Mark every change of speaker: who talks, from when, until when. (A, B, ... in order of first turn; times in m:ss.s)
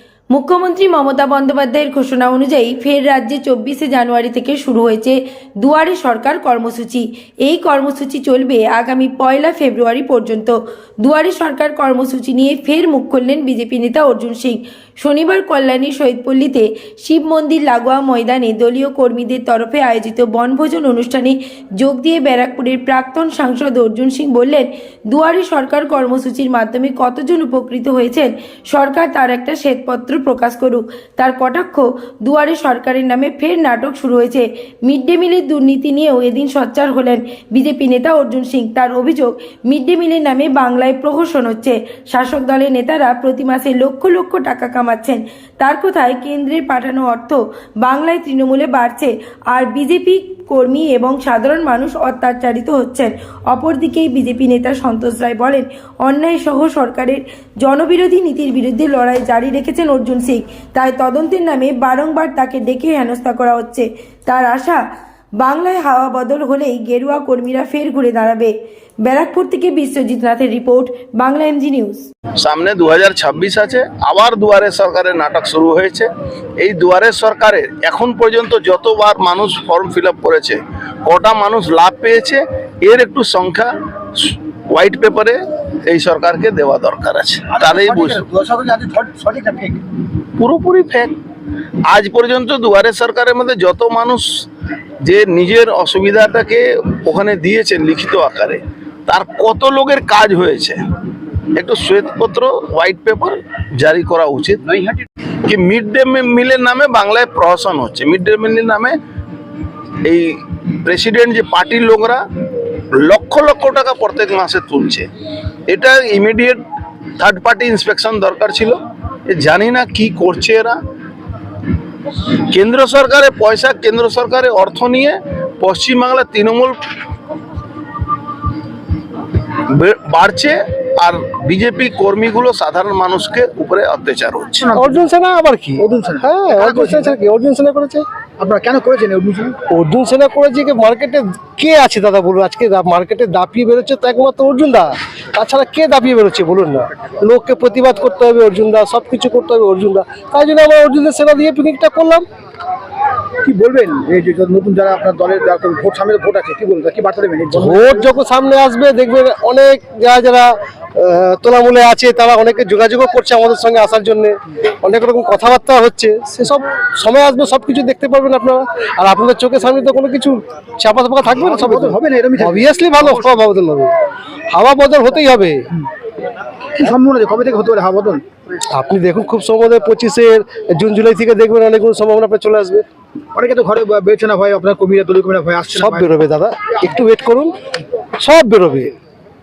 0:00.3-1:04.8 A
1:05.4-1:12.1 A
1:12.4-1:16.1 B
1:16.6-1:28.2 B
1:27.5-1:29.8 C
1:30.4-1:31.1 B
1:31.9-1:34.5 B
1:35.0-1:40.8 B
1:41.6-1:44.9 B
1:45.5-1:49.0 B
1:50.0-1:52.2 B
1:53.0-1:55.1 B
1:55.7-1:56.6 B
1:57.2-2:00.8 B
2:02.5-2:06.8 B
2:09.7-2:14.6 B
2:14.6-2:15.0 C
2:14.7-2:18.0 D
2:15.8-2:17.2 C
2:18.4-2:19.6 C
2:19.7-2:32.2 D
2:33.4-2:38.1 C
2:37.5-2:53.9 D
2:51.3-2:52.7 C
2:54.5-2:55.7 D
2:56.8-2:58.2 C
2:58.7-3:02.8 D
3:03.4-3:06.1 C
3:05.7-3:07.5 D
3:08.2-3:08.9 D